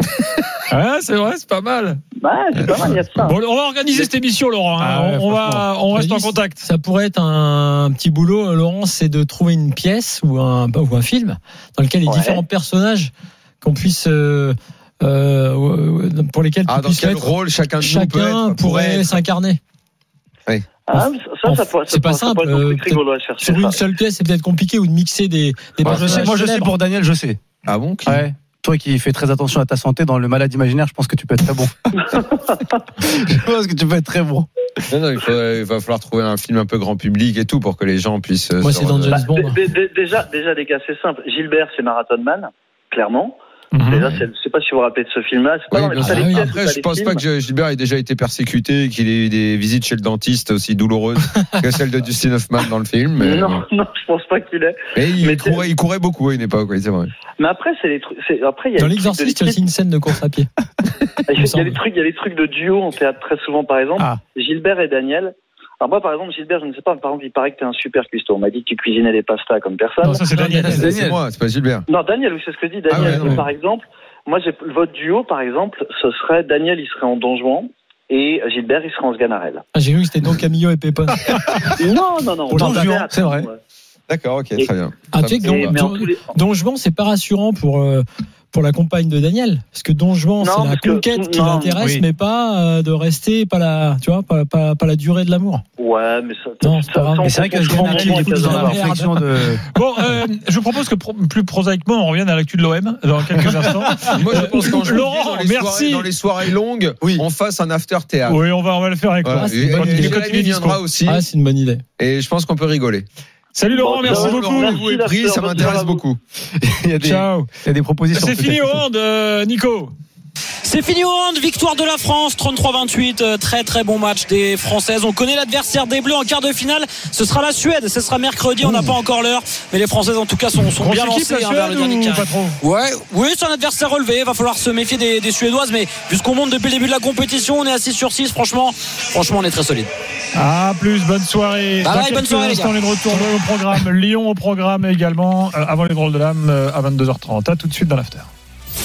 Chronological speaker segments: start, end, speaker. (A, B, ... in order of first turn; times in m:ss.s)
0:00.7-0:02.0 A
0:02.2-0:03.4 B
0:03.2-0:06.6 A
0:04.8-0:05.6 C
0:05.9-0:19.6 D
0:12.1-0:12.4 B
0:16.7-0:19.2 E
0:20.9-0:23.8 B
0:20.9-0:26.7 D
0:25.8-0:27.4 C
0:25.8-0:26.2 E
0:27.7-0:28.3 E
0:28.1-0:32.2 C
0:32.2-0:32.6 B
0:33.0-0:34.5 C
0:34.9-0:39.2 E
0:38.6-0:39.6 D
0:39.1-0:47.2 B
0:43.8-0:44.1 A
0:45.7-0:53.6 E
0:46.0-0:46.5 D
0:53.2-0:55.6 B
0:55.0-0:57.1 E
0:57.4-0:59.6 B
0:58.8-1:00.5 D
1:01.3-1:10.2 B
1:01.4-1:01.8 D
1:10.0-1:11.0 A
1:10.3-1:11.2 C
1:10.6-1:11.9 E
1:11.9-1:19.6 B
1:12.9-1:13.4 E
1:13.0-1:13.4 C
1:19.8-1:21.3 D
1:21.8-1:23.6 B
1:22.5-1:23.0 D
1:22.5-1:23.5 C
1:24.1-1:25.8 E
1:25.1-1:35.6 D
1:25.4-1:26.4 B
1:30.4-1:31.9 B
1:35.8-1:38.8 B
1:36.6-1:39.1 D
1:37.2-1:39.6 C
1:39.7-1:46.1 A
1:43.6-1:43.8 C
1:44.1-1:48.4 E
1:44.3-1:44.7 D
1:48.3-1:50.8 A
1:49.2-1:51.2 E
1:49.3-1:50.3 D
1:51.0-1:51.8 D
1:52.0-1:53.1 E
1:53.6-1:54.9 A
1:53.6-1:56.0 B
1:54.1-1:56.2 E
1:56.6-1:58.8 C
1:57.0-1:57.5 A
1:58.1-1:59.9 A
2:00.6-2:19.9 F
2:08.6-2:08.9 A
2:10.8-2:12.6 A
2:20.4-2:28.3 A
2:21.8-2:23.3 F